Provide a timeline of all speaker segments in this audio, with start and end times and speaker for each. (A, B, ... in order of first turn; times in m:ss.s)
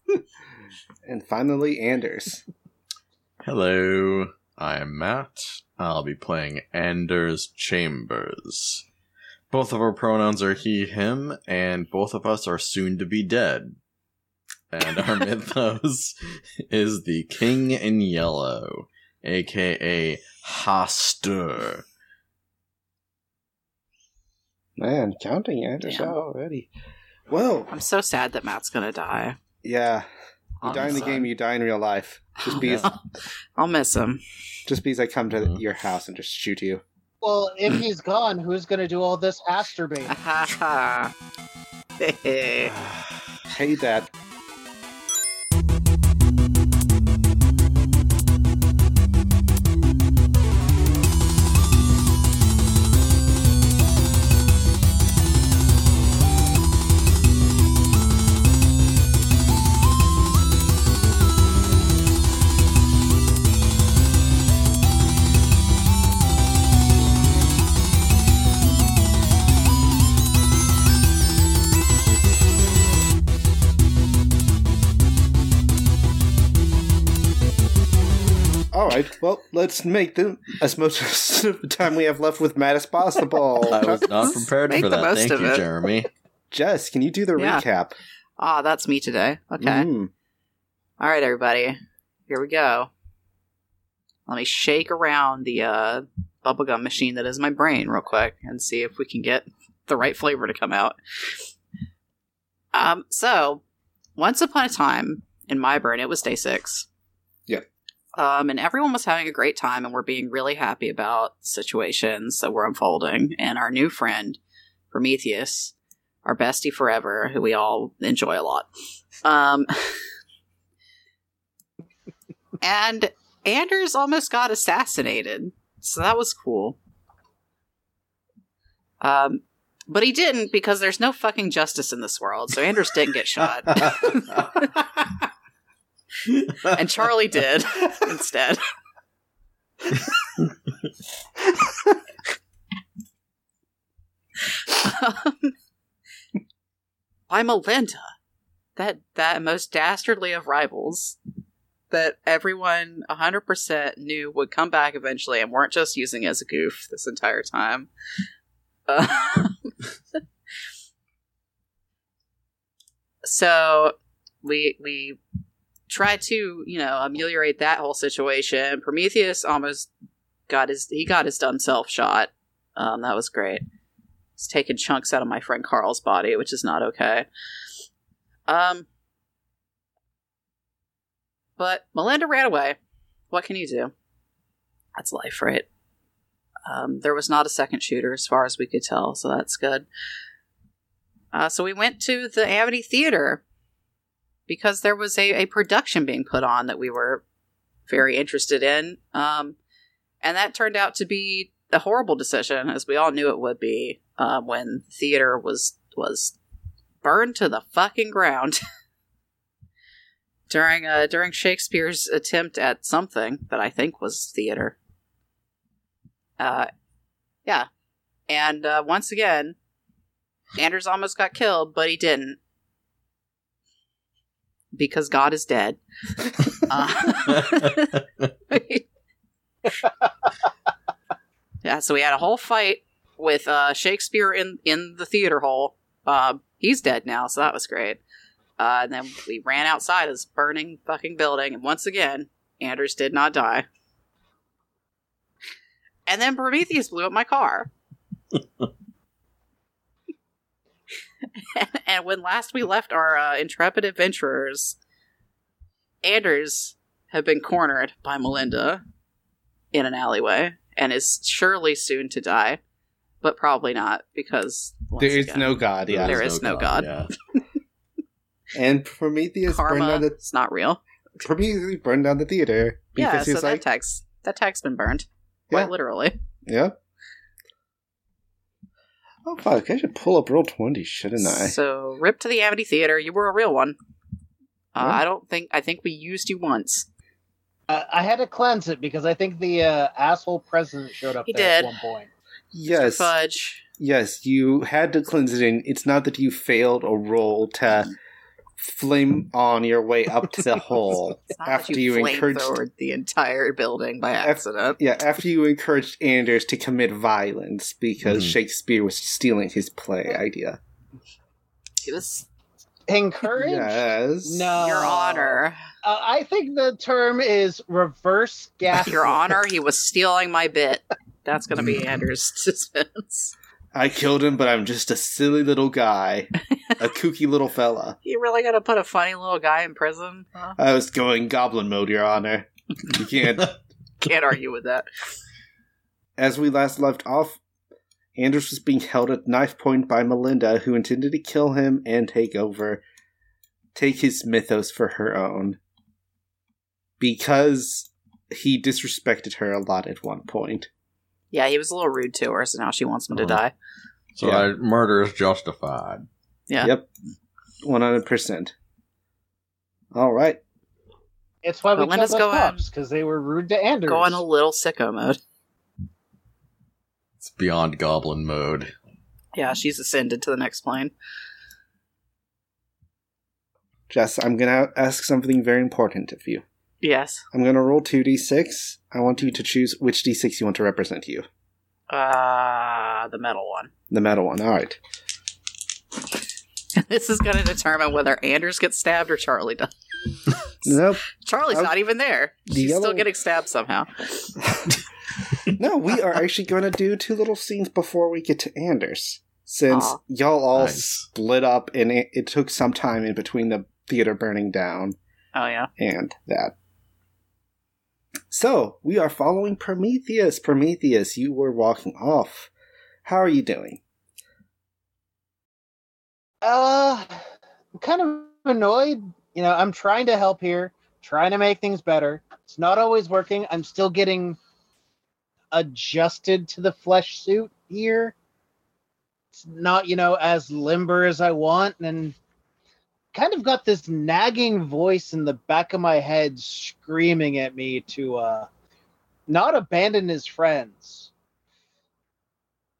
0:01.0-0:02.4 A
0:03.4-0:08.8 B
0:09.5-0:13.8 B
0:14.7-0:21.8 B
0:24.8-0:26.7 A
0:25.8-0:26.2 C
0:27.3-0:27.7 A
0:27.7-0:29.4 C
0:29.6-0:30.1 A
0:30.6-0:31.3 C
0:30.6-0:33.0 A
0:32.5-0:33.0 C
0:33.6-0:34.2 C
0:34.7-0:36.8 A
0:37.2-0:40.2 D
0:40.1-0:41.1 C
0:42.0-0:42.7 C
0:42.7-0:43.0 A
0:43.5-0:44.1 A
1:18.7-1:24.4 A
1:23.7-1:26.1 B
1:24.2-1:25.6 C
1:26.5-1:28.0 A
1:27.4-1:27.6 C
1:28.4-1:29.9 C
1:29.6-1:30.1 A
1:31.0-1:32.9 C
1:34.3-1:41.0 C
1:42.7-1:43.6 C
1:44.2-1:46.9 C
1:48.2-1:54.4 C
1:54.9-1:58.7 C
1:59.2-2:00.0 C
2:02.6-2:06.8 C
2:09.0-2:14.9 C
2:16.6-2:18.6 C
2:24.4-2:25.5 C
2:27.3-2:28.1 C
2:28.8-2:31.2 C
2:31.9-2:37.9 C
2:38.9-2:40.2 C
2:43.2-2:45.2 C
2:45.9-2:49.9 C
2:50.5-2:53.6 C
2:54.4-2:57.3 C
2:58.5-2:58.9 C
3:01.6-3:02.8 C
3:03.3-3:03.9 C
3:05.0-3:05.7 C
3:06.7-3:09.9 C
3:11.3-3:13.4 C
3:14.5-3:17.2 C
3:17.9-3:19.6 C
3:20.2-3:26.4 C
3:27.0-3:28.6 C
3:30.5-3:34.8 C
3:36.4-3:36.7 C
3:38.3-3:39.6 C
3:40.6-3:42.4 C
3:44.7-3:45.8 C
3:46.4-3:47.9 C
3:47.3-3:48.3 B
3:48.5-3:48.8 C
3:51.6-3:58.0 C
3:58.6-4:03.6 C
4:06.1-4:07.7 C
4:11.4-4:14.8 C
4:16.0-4:18.8 C
4:19.7-4:22.6 C
4:23.2-4:26.9 C
4:25.0-4:26.2 A
4:25.9-4:27.1 B
4:28.6-4:30.2 A
4:29.5-4:30.8 C
4:31.2-4:33.6 A
4:33.0-4:36.2 C
4:36.5-4:36.8 A
4:39.3-4:41.6 A
4:41.2-4:43.8 C
4:44.7-4:46.9 C
4:47.7-4:52.1 D
4:51.3-4:51.7 C
4:52.5-4:53.1 A
4:52.7-4:53.6 C
4:53.8-4:58.0 A
4:58.6-5:02.6 A
5:01.3-5:04.8 C
5:04.2-5:10.6 A
5:08.0-5:08.3 B
5:11.8-5:12.3 C
5:12.9-5:19.4 D
5:13.4-5:14.9 A
5:14.6-5:15.6 C
5:18.7-5:23.3 C
5:23.7-5:28.0 A
5:28.0-5:30.6 C
5:30.6-5:33.6 A
5:34.0-5:34.9 C
5:36.2-5:37.4 A
5:38.2-5:42.8 A
5:43.7-5:45.6 A
5:47.0-5:50.7 A
5:51.3-5:53.5 C
5:53.1-5:53.4 B
5:54.2-5:56.1 B
5:54.2-5:54.5 A
5:56.6-5:56.9 A
5:57.6-5:58.5 A
5:59.9-6:00.4 A
6:01.4-6:04.2 D
6:01.8-6:02.6 C
6:03.9-6:05.2 C
6:07.2-6:08.7 B
6:09.3-6:10.9 C
6:13.9-6:16.4 A
6:16.8-6:17.2 C
6:17.3-6:21.2 A
6:21.9-6:23.7 C
6:23.9-6:24.8 A
6:26.8-6:34.3 C
6:30.6-6:31.7 A
6:32.5-6:33.1 A
6:34.4-6:34.8 A
6:35.4-6:45.0 A
6:39.7-6:40.0 C
6:40.6-6:41.1 B
6:45.3-6:45.7 C
6:45.8-6:46.6 A
6:48.3-6:52.5 A
6:53.0-6:53.8 A
6:56.4-6:57.2 D
6:57.8-7:04.4 D
7:05.5-7:08.2 D
7:09.4-7:12.2 D
7:13.1-7:18.5 D
7:19.3-7:21.1 D